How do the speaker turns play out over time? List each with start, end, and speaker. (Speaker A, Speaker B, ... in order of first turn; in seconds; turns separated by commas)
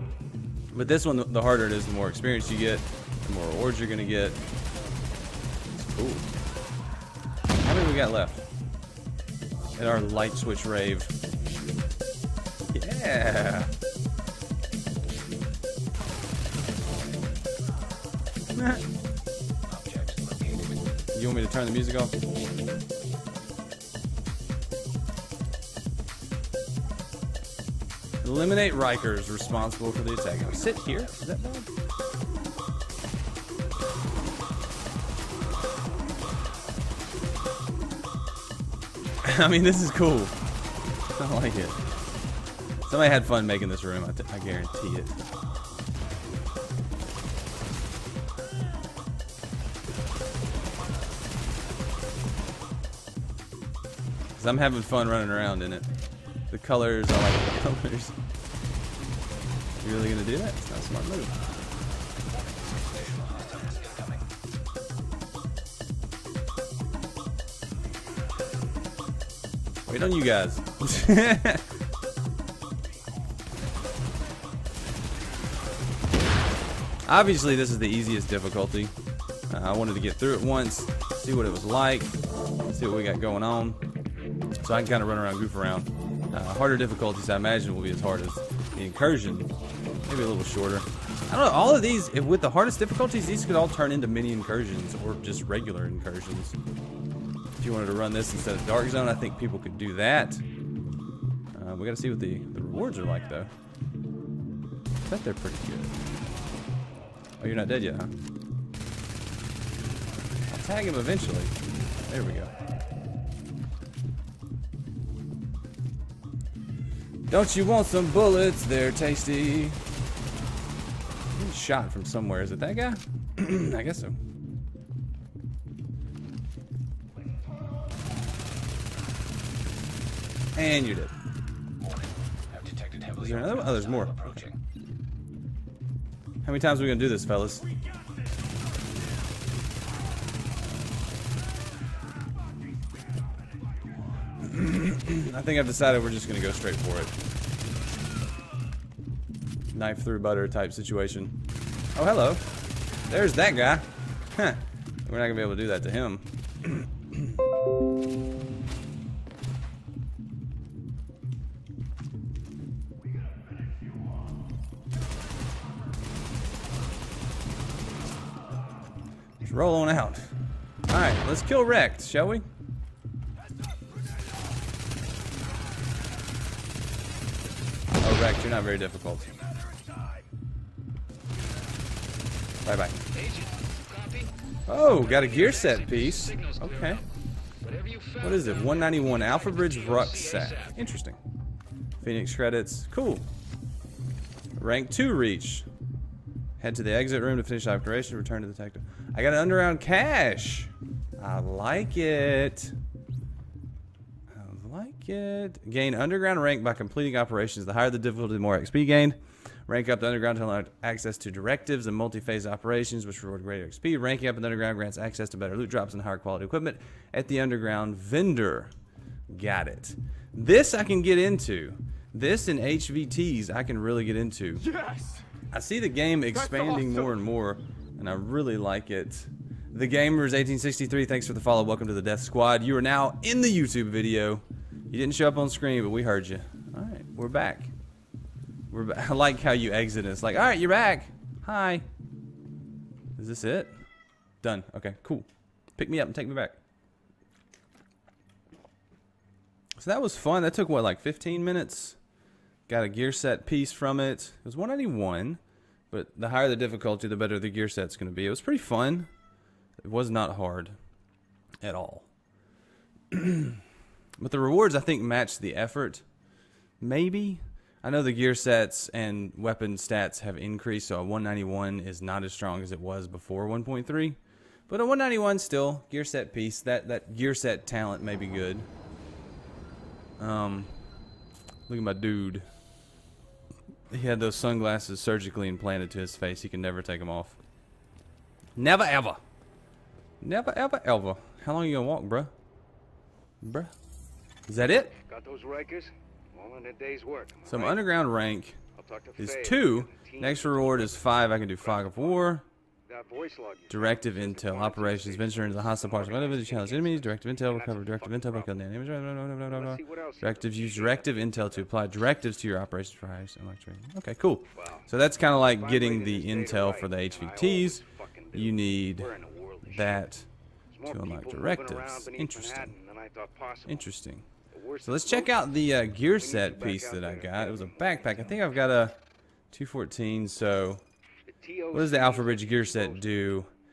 Speaker A: 0.7-4.4, Speaker A: 5.8-6.3, Speaker A: 7.6-8.4, Speaker A: 9.8-11.1, Speaker A: 12.7-13.7, Speaker A: 18.6-18.8, Speaker B: 19.7-20.9, Speaker A: 21.1-22.1, Speaker A: 28.2-31.7, Speaker B: 30.3-31.1, Speaker A: 39.2-40.3, Speaker A: 41.1-41.8, Speaker A: 42.8-45.2, Speaker A: 54.4-55.9, Speaker A: 56.5-58.1, Speaker A: 59.8-61.4, Speaker B: 62.2-64.2, Speaker A: 69.8-71.7, Speaker A: 77.0-78.9, Speaker A: 79.5-82.1, Speaker A: 82.7-83.8, Speaker A: 84.6-89.5, Speaker A: 90.1-96.5, Speaker A: 97.6-100.4, Speaker A: 101.5-103.5, Speaker A: 105.0-106.0, Speaker A: 107.4-108.1, Speaker A: 110.5-111.5, Speaker A: 112.1-112.5, Speaker A: 117.3-119.8, Speaker A: 121.3-124.2, Speaker A: 130.6-131.1, Speaker B: 131.8-134.6, Speaker A: 133.1-134.4, Speaker A: 136.4-137.7, Speaker A: 144.4-147.1, Speaker A: 149.7-151.3, Speaker A: 151.9-152.4, Speaker A: 153.1-157.4, Speaker A: 169.4-170.3, Speaker A: 170.9-172.5, Speaker A: 178.0-179.3, Speaker A: 182.6-183.0, Speaker B: 183.1-184.3, Speaker A: 184.7-187.0, Speaker B: 184.9-187.0, Speaker B: 187.6-190.8, Speaker A: 188.2-191.2, Speaker A: 192.0-193.2, Speaker A: 194.6-195.7, Speaker A: 196.6-202.8, Speaker A: 204.3-218.7, Speaker A: 219.3-237.7, Speaker A: 238.7-241.8, Speaker A: 243.2-243.8, Speaker A: 244.4-246.6, Speaker A: 249.8-252.0, Speaker A: 252.7-259.1, Speaker A: 259.8-260.8, Speaker A: 261.6-262.1, Speaker A: 263.1-263.6, Speaker A: 264.2-266.0, Speaker A: 266.8-278.7, Speaker A: 280.2-280.7, Speaker A: 281.7-282.4, Speaker A: 283.9-287.4, Speaker A: 288.6-289.2, Speaker A: 290.2-292.3, Speaker A: 293.4-293.7, Speaker A: 294.5-294.9, Speaker C: 294.9-297.9, Speaker A: 297.4-298.6, Speaker C: 298.7-302.3, Speaker A: 299.2-302.4, Speaker C: 302.9-308.6, Speaker A: 303.7-320.3, Speaker C: 309.5-311.7, Speaker C: 314.5-320.1, Speaker C: 320.7-323.9, Speaker A: 320.8-322.7, Speaker A: 323.6-324.3, Speaker C: 324.5-325.4, Speaker A: 324.8-329.0, Speaker C: 326.1-328.2, Speaker A: 329.5-330.8, Speaker C: 331.3-333.2, Speaker A: 331.7-333.5